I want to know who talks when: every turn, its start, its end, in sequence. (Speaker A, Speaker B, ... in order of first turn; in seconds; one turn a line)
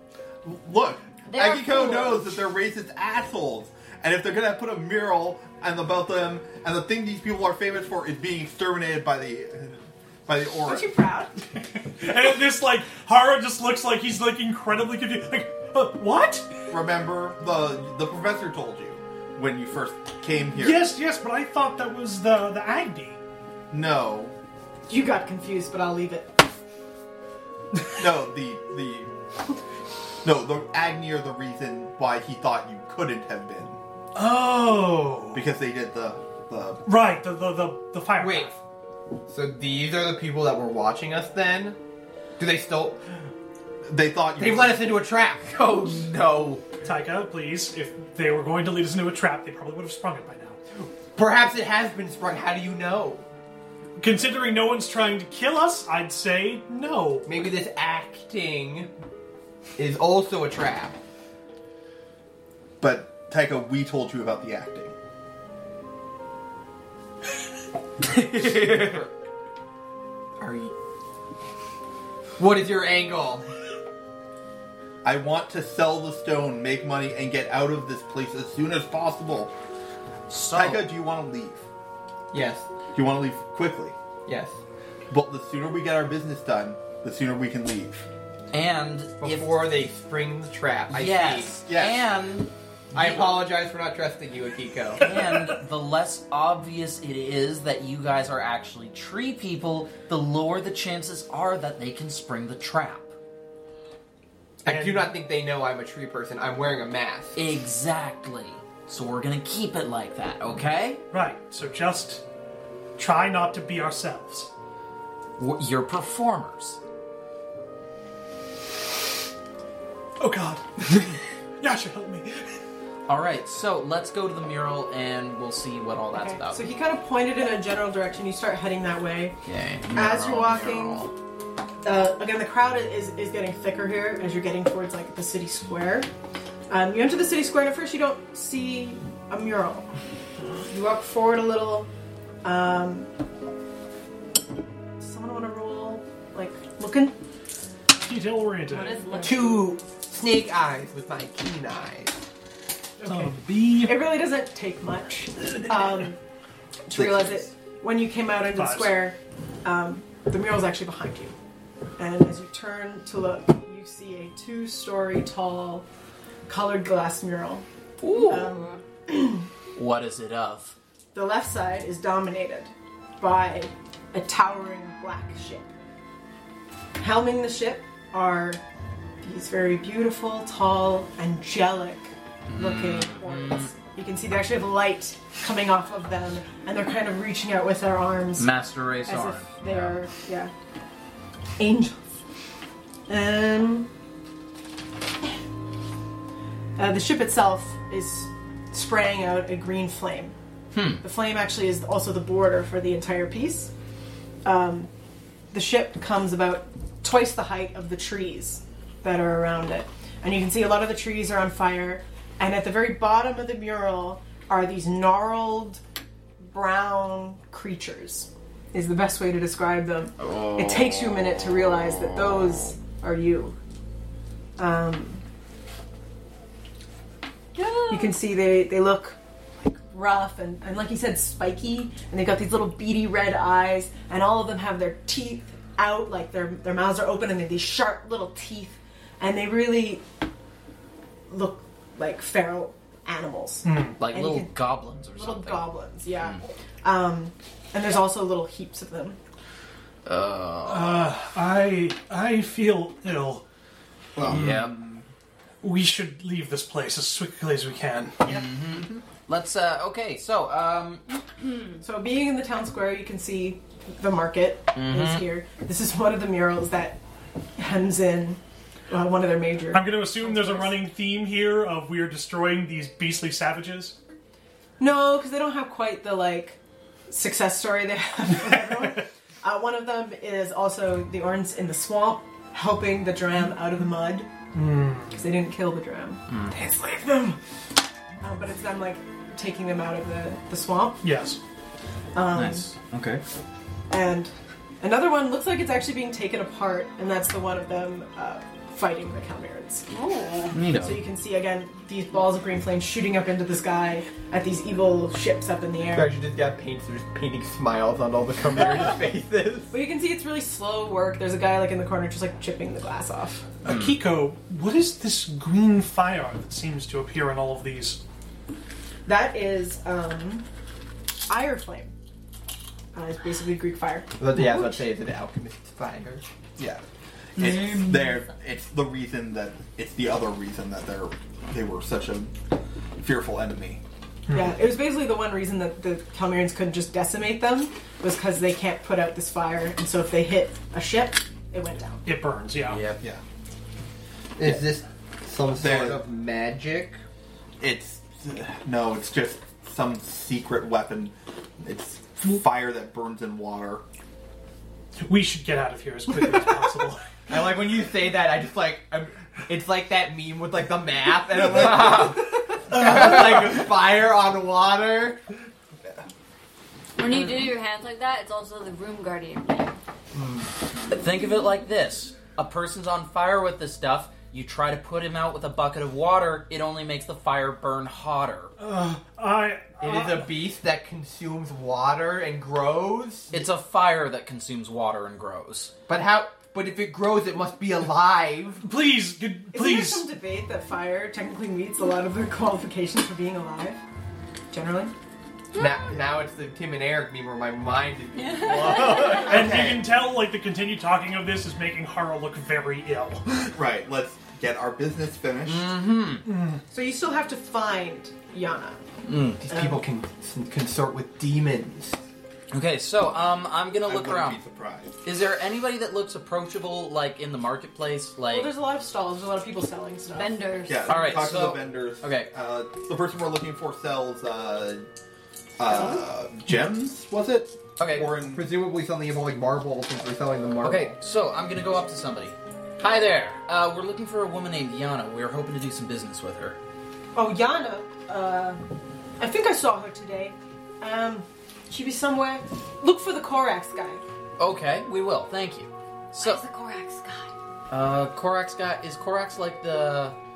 Speaker A: 0.5-10.9
Speaker B: 1.3-2.3
Speaker C: 10.7-11.3
Speaker D: 12.0-16.5
Speaker A: 16.7-20.9
Speaker D: 20.6-23.2
Speaker A: 23.7-24.3
Speaker C: 24.9-26.4
Speaker A: 27.9-29.1
Speaker A: 30.2-33.8
Speaker D: 34.1-35.4
Speaker A: 35.3-36.8
Speaker D: 36.9-38.6
Speaker E: 38.2-38.5
Speaker E: 39.3-41.8
Speaker E: 42.4-43.0
Speaker A: 43.9-44.9
Speaker E: 44.4-46.7
Speaker D: 46.8-50.6
Speaker E: 50.8-53.3
Speaker D: 54.0-57.3
Speaker E: 57.2-58.9
Speaker E: 59.8-61.0
Speaker A: 62.8-64.9
Speaker F: 68.1-69.0
Speaker E: 68.3-69.1
Speaker E: 70.4-70.7
Speaker E: 72.4-73.5
Speaker A: 75.0-79.5
Speaker F: 80.3-80.9
Speaker A: 80.5-81.7
Speaker E: 82.3-82.7
Speaker A: 82.9-84.0
Speaker E: 84.3-84.6
Speaker A: 85.1-88.0
Speaker F: 88.5-89.8
Speaker E: 89.2-91.6
Speaker F: 90.9-93.5
Speaker A: 91.7-92.0
Speaker E: 92.9-95.2
Speaker F: 95.0-103.1
Speaker E: 104.6-107.4
Speaker D: 104.7-105.1
Speaker F: 107.3-111.0
Speaker D: 111.1-112.2
Speaker D: 113.0-114.5
Speaker F: 115.4-116.8
Speaker D: 120.2-122.6
Speaker F: 123.1-126.7
Speaker C: 126.1-129.4
Speaker F: 129.4-131.1
Speaker C: 129.9-131.1
Speaker C: 131.8-136.1
Speaker C: 136.7-139.9
Speaker C: 140.7-141.9
Speaker C: 142.4-143.1
Speaker C: 145.0-147.2
Speaker D: 148.0-149.0
Speaker C: 148.7-149.6
Speaker B: 148.9-149.7
Speaker E: 149.2-152.2
Speaker D: 153.0-154.1
Speaker C: 153.0-156.2
Speaker C: 156.9-161.3
Speaker A: 156.9-157.5
Speaker D: 158.6-159.1
Speaker C: 162.0-165.9
Speaker C: 166.5-167.6
Speaker F: 168.0-168.5
Speaker B: 168.1-168.8
Speaker C: 168.2-169.5
Speaker F: 169.7-170.7
Speaker C: 171.1-175.7
Speaker C: 177.0-178.6
Speaker C: 179.2-188.5
Speaker F: 182.5-183.7
Speaker F: 188.4-190.0
Speaker C: 189.1-190.5
Speaker C: 191.6-192.0
Speaker C: 193.1-193.9
Speaker C: 196.8-200.3
Speaker F: 200.7-201.0
Speaker C: 201.0-203.7
Speaker C: 204.4-204.9
Speaker C: 205.5-215.8
Speaker C: 216.5-223.6
Speaker F: 220.2-220.6
Speaker C: 224.6-225.2
Speaker B: 227.6-228.1
Speaker C: 227.9-229.2
Speaker C: 229.9-240.0
Speaker C: 241.3-249.2
Speaker D: 243.6-244.0
Speaker F: 244.0-246.4
Speaker F: 250.1-251.2
Speaker D: 250.7-253.4
Speaker E: 254.2-254.6
Speaker F: 254.2-254.8
Speaker D: 255.6-258.4
Speaker F: 258.2-261.0
Speaker C: 261.8-267.0
Speaker F: 264.7-265.3
Speaker C: 267.6-270.8
Speaker D: 269.7-274.0
Speaker C: 274.8-284.3
Speaker D: 278.4-278.9
Speaker D: 284.5-285.2
Speaker C: 285.1-287.4
Speaker F: 286.3-286.5
Speaker C: 288.2-291.1
Speaker D: 291.0-291.4
Speaker C: 292.1-292.7
Speaker F: 292.3-293.2
Speaker C: 293.9-299.9
Speaker B: 299.9-300.6
Speaker F: 300.5-301.0
Speaker C: 300.7-306.1
Speaker E: 305.9-309.7
Speaker C: 309.7-313.5
Speaker D: 313.6-318.0
Speaker C: 319.1-320.4
Speaker C: 321.3-321.9
Speaker C: 322.9-324.8
Speaker E: 324.2-326.3
Speaker A: 327.4-332.4
Speaker F: 327.4-327.8
Speaker A: 333.0-333.8
Speaker C: 334.3-342.1
Speaker D: 342.1-342.8
Speaker F: 342.7-343.0
Speaker E: 344.4-347.0
Speaker A: 345.5-346.0
Speaker A: 347.6-353.8
Speaker D: 355.0-357.1
Speaker E: 357.3-365.2
Speaker F: 361.5-362.2
Speaker D: 362.7-363.0
Speaker B: 366.9-369.8
Speaker F: 367.1-367.4
Speaker E: 370.1-370.4
Speaker F: 370.9-378.5
Speaker D: 378.6-380.3
Speaker E: 379.8-383.4
Speaker F: 383.3-385.7
Speaker E: 385.9-388.6
Speaker D: 388.6-390.1
Speaker C: 389.5-393.8
Speaker C: 394.5-394.9
Speaker B: 395.6-395.9
Speaker E: 395.6-399.9
Speaker B: 398.1-399.4
Speaker D: 399.1-403.5
Speaker A: 403.5-405.7
Speaker F: 405.4-406.3
Speaker D: 406.3-406.6
Speaker C: 406.7-408.8
Speaker F: 409.1-409.4
Speaker E: 409.4-412.0
Speaker C: 409.5-409.8
Speaker F: 412.5-414.4
Speaker A: 413.8-415.0
Speaker F: 415.0-418.5
Speaker C: 418.3-420.4
Speaker B: 420.1-421.2
Speaker A: 420.6-424.9
Speaker F: 420.8-422.3
Speaker A: 425.6-428.5
Speaker F: 427.8-428.1
Speaker E: 428.2-430.9
Speaker F: 430.6-436.6
Speaker C: 437.1-438.7
Speaker C: 439.2-444.0
Speaker F: 444.4-446.4
Speaker B: 446.2-447.3
Speaker F: 447.7-450.2